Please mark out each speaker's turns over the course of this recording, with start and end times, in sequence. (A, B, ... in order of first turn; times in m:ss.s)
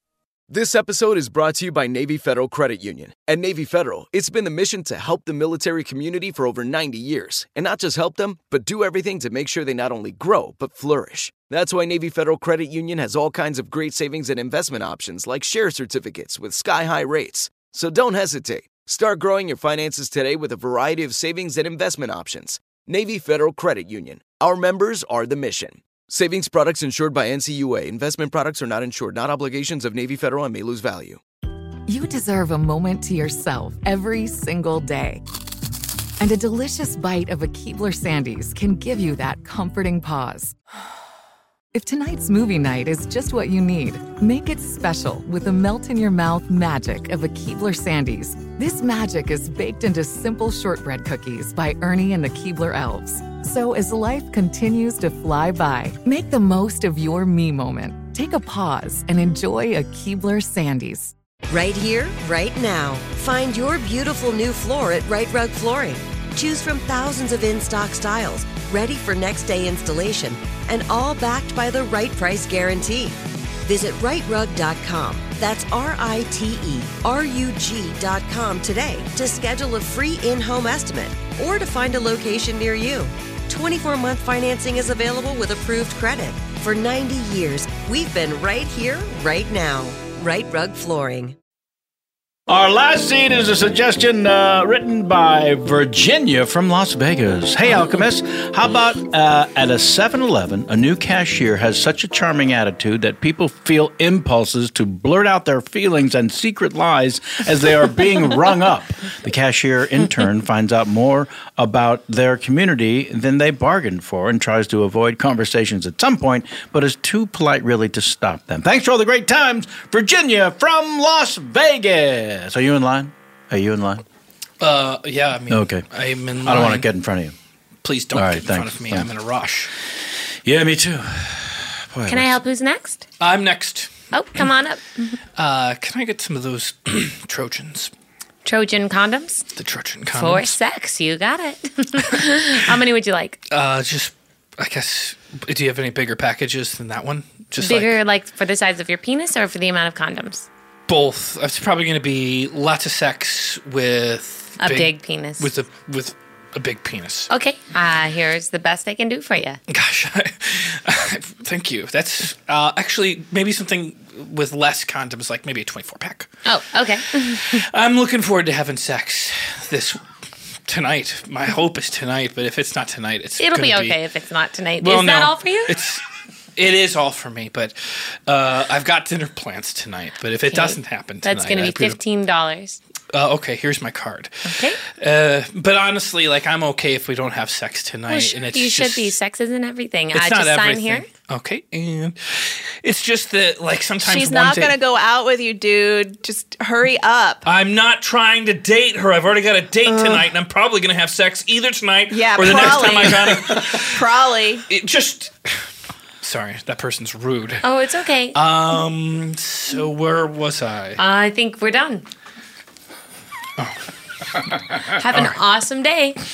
0:00.5-0:31.2 A
0:31.9-0:35.2 B
0:36.2-0:40.5 B
0:41.7-1:01.1 B
1:01.5-1:31.3 C
1:32.5-2:04.0 D
2:04.6-2:06.9 E
2:05.5-2:05.8 D
2:06.4-2:07.3 D
2:07.8-2:09.7 E
2:08.1-2:09.1 D
2:10.4-2:12.4 D
2:12.1-2:13.0 F
2:13.2-2:14.0 E
2:14.1-2:15.2 F
2:15.4-2:17.9 E
2:18.4-2:19.4 F
2:19.5-2:20.6 E
2:20.1-2:23.4 F
2:23.5-2:28.0 E
2:27.6-2:30.4 F
2:30.9-2:37.3 E
2:34.6-2:35.5 F
2:37.3-2:39.6 F
2:39.7-2:46.3 E
2:46.4-2:47.5 F
2:47.4-2:50.0 E
2:50.6-2:54.0 E
2:53.4-2:55.7 F
2:54.8-2:56.0 E
2:56.6-2:57.8 E
2:58.3-3:02.0 E
3:00.5-3:02.8 F
3:03.1-3:09.1 E
3:04.4-3:04.8 F
3:08.1-3:11.1 F
3:10.1-3:14.8 E
3:14.0-3:17.4 G
3:17.4-3:24.0 E
3:19.9-3:20.3 G
3:22.1-3:24.6 G
3:24.7-3:25.3 E
3:26.2-3:27.6 E
3:27.6-3:28.4 F
3:28.3-3:31.0 E
3:31.0-3:32.0 F
3:35.0-3:36.2 F